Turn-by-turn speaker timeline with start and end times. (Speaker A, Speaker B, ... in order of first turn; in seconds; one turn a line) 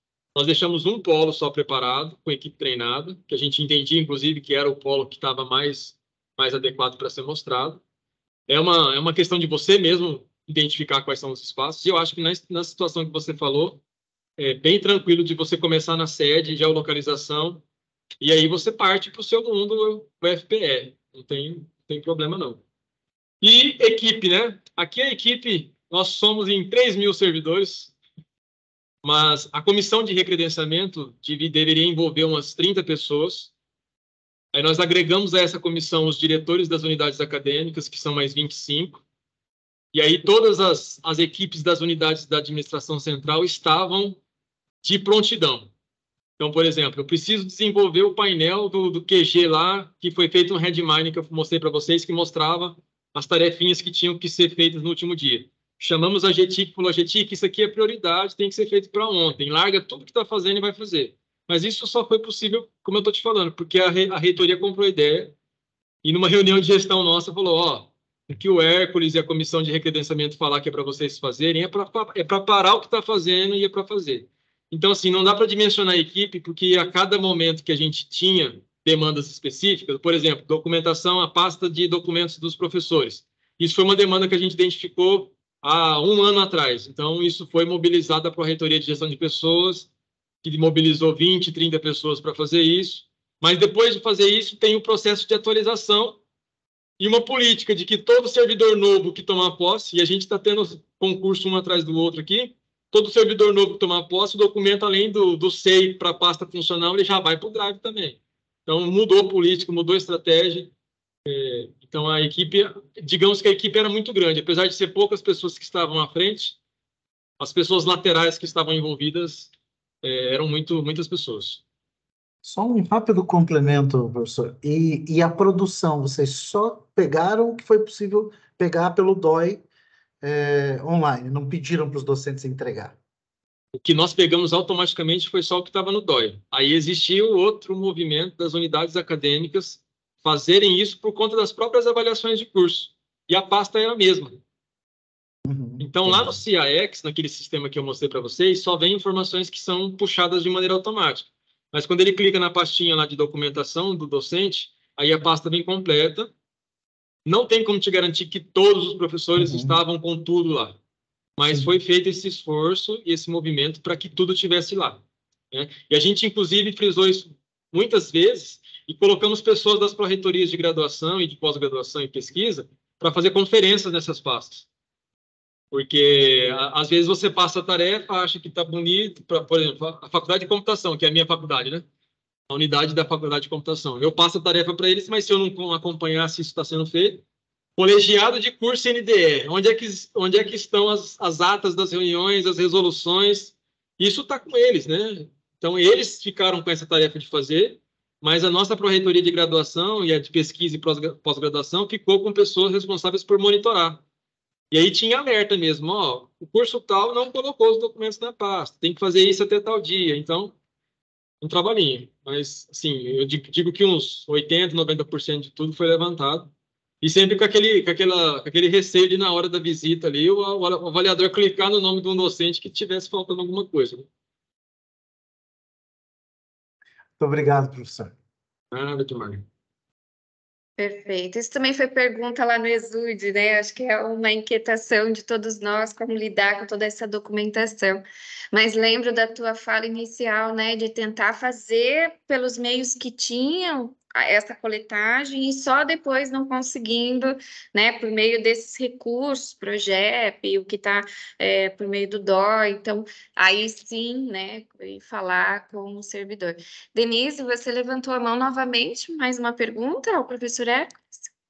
Speaker A: 0.3-7.8
Speaker A: 8.5-13.8
Speaker A: 14.4-17.6
Speaker A: 18.2-22.6
Speaker A: 23.4-27.9
Speaker A: 29.0-33.5
Speaker A: 34.5-39.0
Speaker A: 39.9-44.2
Speaker A: 44.8-45.7
Speaker A: 46.4-65.3
Speaker A: 66.0-89.9
Speaker A: 90.4-96.2
Speaker A: 97.0-110.7
Speaker A: 111.3-116.6
Speaker A: 117.4-119.5
Speaker A: 120.0-121.6
Speaker B: 122.4-129.6
Speaker B: 130.2-133.0
Speaker A: 133.8-144.4
Speaker B: 145.5-146.4
Speaker A: 145.8-156.3
Speaker A: 157.3-160.8
Speaker B: 159.4-159.8
Speaker A: 161.4-165.0
Speaker A: 165.5-174.7
Speaker A: 175.7-181.9
Speaker A: 182.5-187.2
Speaker A: 187.8-204.0
Speaker A: 204.7-210.6
Speaker A: 211.4-224.1
Speaker B: 227.2-228.1
Speaker A: 228.7-229.4
Speaker C: 230.8-238.0
Speaker C: 238.5-261.3